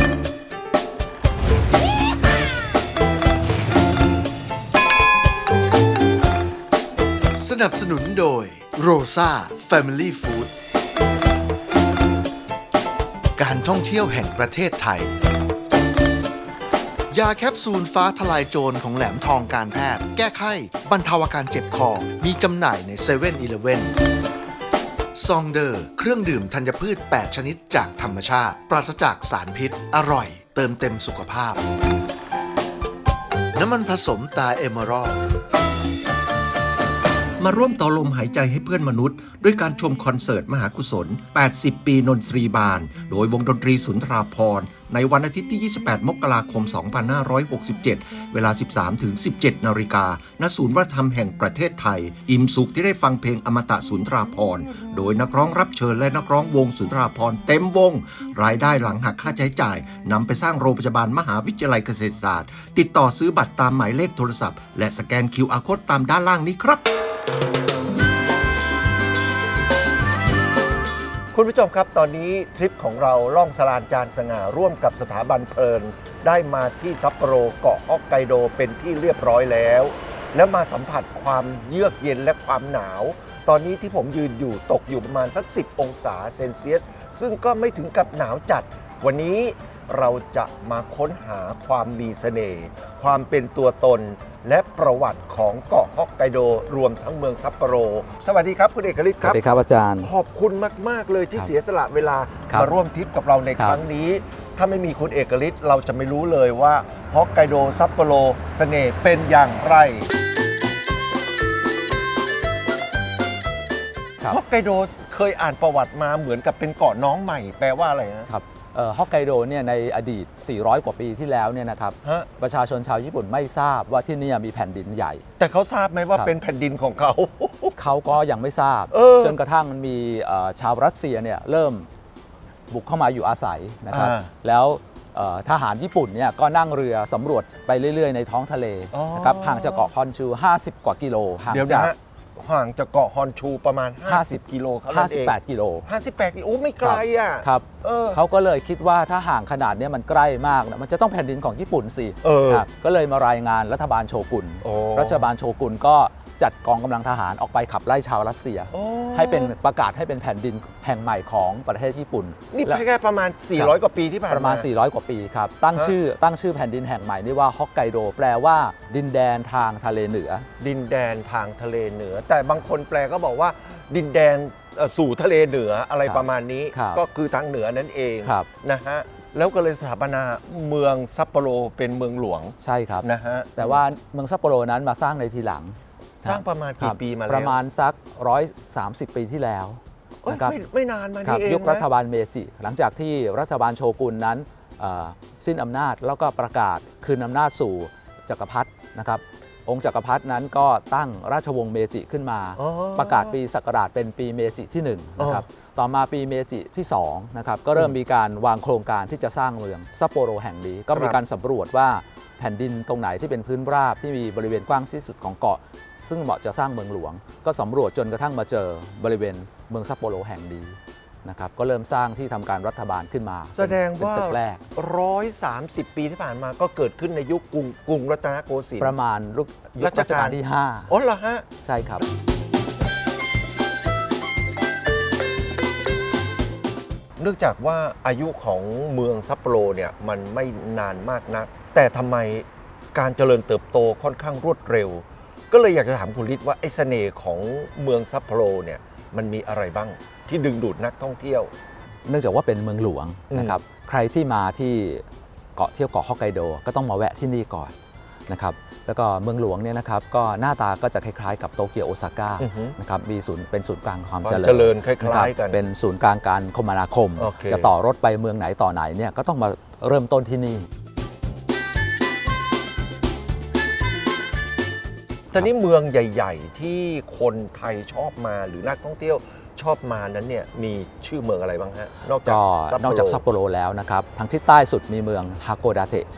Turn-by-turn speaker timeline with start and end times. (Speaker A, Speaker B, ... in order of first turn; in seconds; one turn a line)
Speaker A: 7.4-10.5
Speaker A: 13.4-15.1
Speaker A: 17.1-23.9
Speaker A: 25.1-31.6
Speaker A: 33.5-35.2
Speaker B: 37.4-66.8
Speaker C: 71.3-99.4
Speaker D: 99.2-100.1
Speaker C: 100.0-110.1
Speaker D: 103.6-103.8
Speaker C: 114.3-118.3
Speaker D: 118.3-125.2
Speaker C: 122.0-122.3
Speaker C: 125.4-127.8
Speaker D: 127.8-131.9
Speaker C: 128.9-129.4
Speaker D: 132.7-141.9
Speaker C: 133.9-134.3
Speaker C: 138.9-139.9
Speaker C: 141.5-148.2
Speaker D: 144.1-145.8
Speaker D: 146.8-162.8
Speaker C: 152.2-152.7
Speaker C: 154.6-155.3
Speaker C: 158.7-159.5
Speaker C: 162.5-164.7
Speaker D: 164.3-170.5
Speaker C: 170.6-183.8
Speaker D: 176.0-177.0
Speaker D: 182.6-190.6
Speaker C: 186.2-187.6
Speaker C: 190.2-191.8
Speaker D: 191.2-224.6
Speaker C: 202.6-203.3
Speaker C: 205.2-205.4
Speaker C: 223.6-228.9
Speaker D: 228.8-230.9
Speaker C: 229.8-231.5
Speaker D: 231.6-232.0
Speaker C: 237.2-251.5
Speaker D: 252.1-255.0
Speaker C: 253.3-253.6
Speaker D: 255.6-257.7
Speaker D: 258.3-270.7
Speaker C: 262.4-262.8
Speaker C: 264.2-265.6
Speaker C: 267.2-267.7
Speaker C: 275.3-283.2
Speaker D: 282.2-286.1